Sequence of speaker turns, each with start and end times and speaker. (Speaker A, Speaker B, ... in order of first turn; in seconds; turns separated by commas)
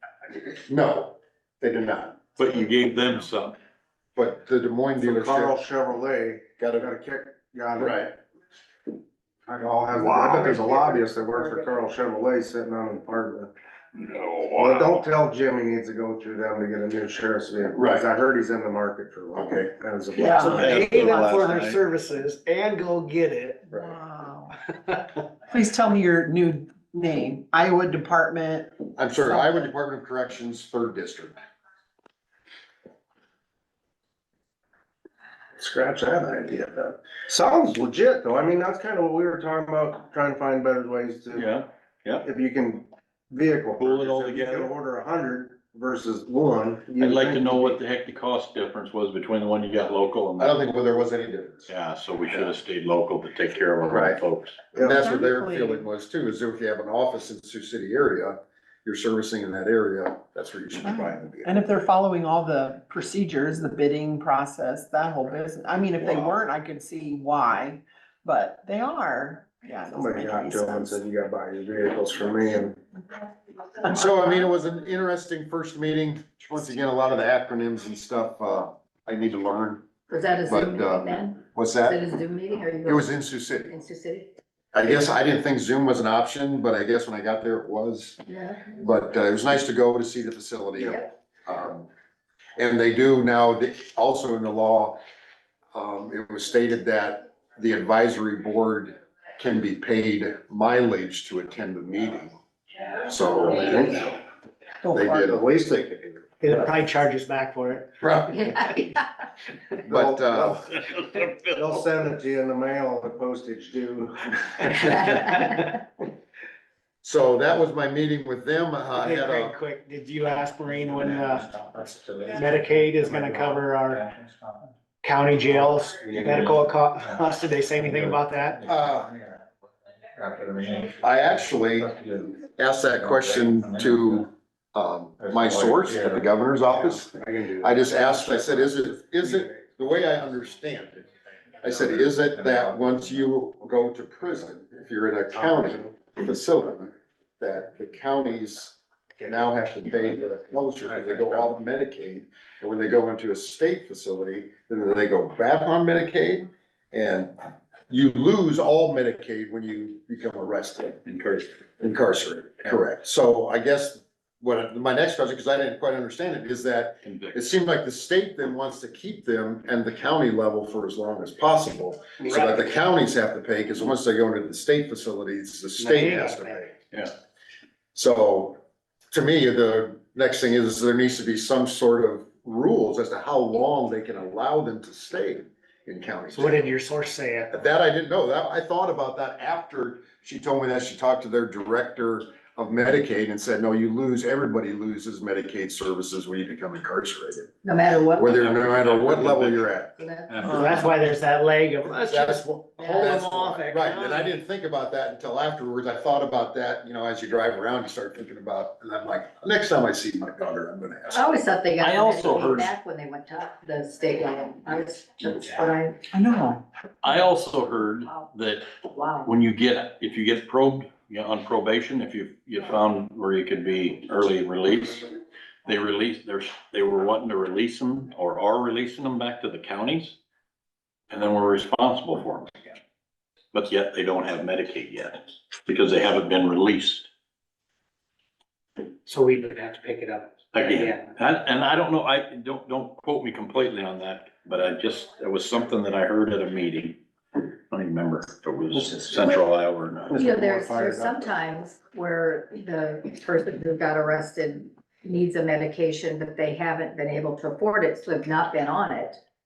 Speaker A: 0.3-2.2, Speaker B: 2.4-3.5, Speaker A: 4.1-5.6, Speaker C: 5.0-8.1, Speaker A: 6.6-6.9, Speaker A: 7.8-8.1, Speaker C: 9.4-13.5, Speaker D: 10.2-11.7, Speaker B: 13.9-15.0, Speaker C: 14.6-21.1, Speaker A: 17.8-18.1, Speaker E: 20.4-23.8, Speaker B: 20.4-21.8, Speaker F: 23.8-24.5, Speaker E: 24.9-25.2, Speaker F: 25.5-28.7, Speaker A: 28.9-31.4, Speaker C: 35.6-41.5, Speaker B: 41.3-42.2, Speaker C: 42.2-47.8, Speaker B: 43.8-44.7, Speaker B: 47.0-50.6, Speaker A: 50.4-51.7, Speaker B: 51.7-54.7, Speaker A: 53.9-54.2, Speaker A: 54.7-61.6, Speaker C: 54.7-55.0, Speaker F: 54.9-55.8, Speaker F: 60.8-70.9, Speaker C: 69.9-72.8, Speaker A: 73.9-79.8, Speaker D: 80.1-84.3, Speaker A: 80.5-82.0, Speaker A: 82.8-83.7, Speaker A: 84.7-88.2, Speaker D: 88.2-88.7, Speaker A: 88.7-91.9, Speaker A: 92.6-95.0, Speaker A: 95.7-102.4, Speaker A: 103.0-104.1, Speaker C: 103.5-104.0, Speaker B: 103.5-103.8, Speaker A: 104.9-105.5, Speaker F: 104.9-105.2, Speaker C: 104.9-106.6, Speaker E: 106.4-107.9, Speaker A: 108.0-108.6, Speaker A: 109.8-110.7, Speaker C: 109.9-110.6, Speaker B: 110.8-111.4, Speaker C: 111.5-115.5, Speaker A: 117.0-119.6, Speaker E: 119.0-121.5, Speaker F: 121.2-124.5, Speaker E: 122.3-124.1, Speaker E: 125.0-128.6, Speaker A: 128.6-129.1, Speaker F: 129.1-129.3, Speaker F: 130.2-130.9, Speaker A: 131.0-141.1, Speaker F: 135.3-136.1, Speaker C: 136.7-139.6, Speaker A: 141.6-157.3, Speaker C: 145.4-145.9, Speaker A: 157.9-161.0, Speaker B: 161.0-161.5, Speaker A: 161.8-176.6, Speaker B: 167.0-167.5, Speaker E: 175.8-176.6, Speaker A: 177.9-178.6, Speaker A: 179.1-186.7, Speaker E: 186.3-187.5, Speaker A: 187.5-197.5, Speaker D: 197.6-198.4, Speaker A: 198.1-199.9, Speaker B: 198.3-200.9, Speaker D: 200.0-200.6, Speaker E: 200.5-204.4, Speaker A: 201.9-211.3, Speaker D: 202.8-203.1, Speaker D: 211.1-216.1, Speaker B: 211.8-212.7, Speaker F: 216.3-216.6, Speaker B: 217.0-225.1, Speaker D: 218.8-219.3, Speaker B: 225.7-230.2, Speaker B: 231.1-232.8, Speaker B: 233.5-237.1, Speaker E: 239.1-241.0, Speaker B: 240.5-250.2, Speaker C: 248.7-249.3, Speaker C: 250.1-251.3, Speaker D: 250.1-259.2